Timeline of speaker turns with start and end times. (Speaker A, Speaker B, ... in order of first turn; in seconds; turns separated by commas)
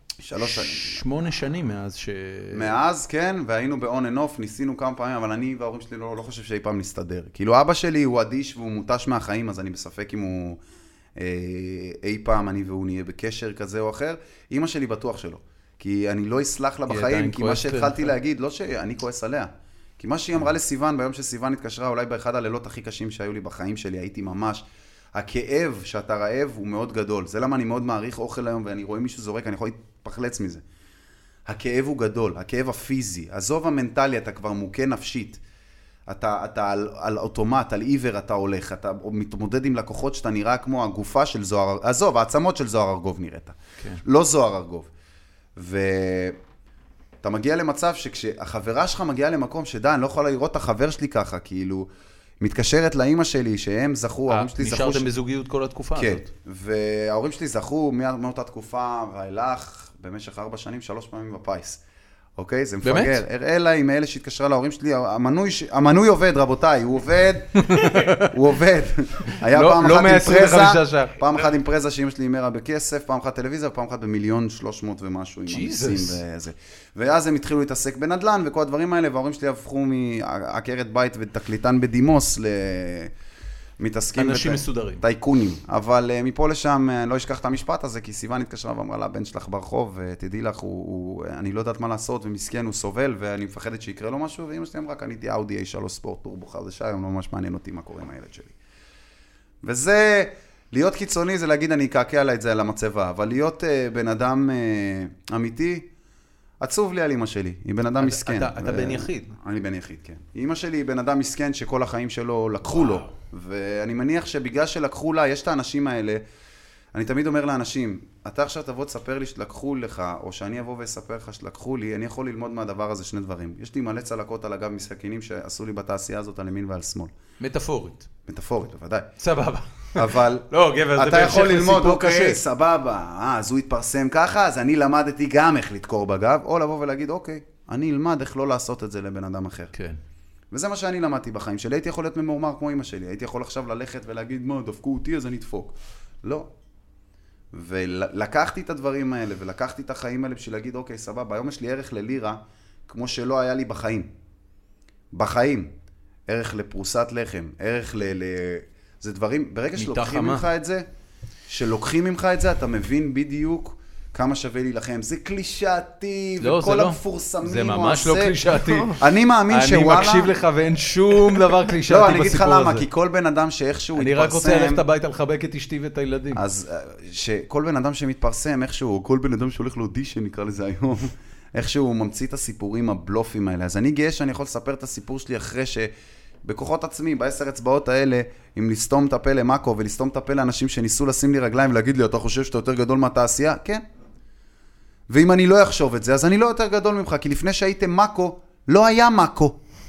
Speaker A: 0.2-1.0, Speaker B: 0.4-2.7, Speaker A: 2.5-10.6, Speaker A: 11.2-24.6, Speaker B: 16.9-18.1, Speaker A: 25.1-30.6, Speaker A: 31.4-35.4, Speaker A: 36.1-44.9, Speaker A: 45.5-46.4, Speaker A: 47.2-51.9, Speaker A: 52.4-55.1, Speaker B: 54.3-56.2, Speaker A: 55.9-61.8, Speaker A: 62.4-83.1, Speaker B: 62.8-63.2, Speaker B: 67.6-68.4, Speaker B: 69.3-71.2, Speaker B: 75.5-76.2, Speaker A: 83.8-98.5, Speaker B: 84.2-85.0, Speaker A: 99.6-105.9, Speaker A: 106.6-116.2, Speaker B: 108.0-109.3, Speaker A: 116.9-127.1, Speaker B: 127.4-128.1, Speaker A: 128.2-129.1, Speaker B: 129.2-132.4, Speaker A: 129.9-139.7, Speaker A: 140.5-146.5, Speaker A: 147.5-154.1, Speaker A: 155.1-155.7, Speaker A: 156.3-160.8, Speaker B: 159.8-160.4, Speaker A: 161.5-168.4, Speaker B: 166.4-172.8, Speaker A: 168.9-170.3, Speaker A: 171.9-174.8, Speaker B: 173.9-176.4, Speaker A: 176.3-185.9, Speaker A: 186.4-193.8, Speaker A: 195.1-199.6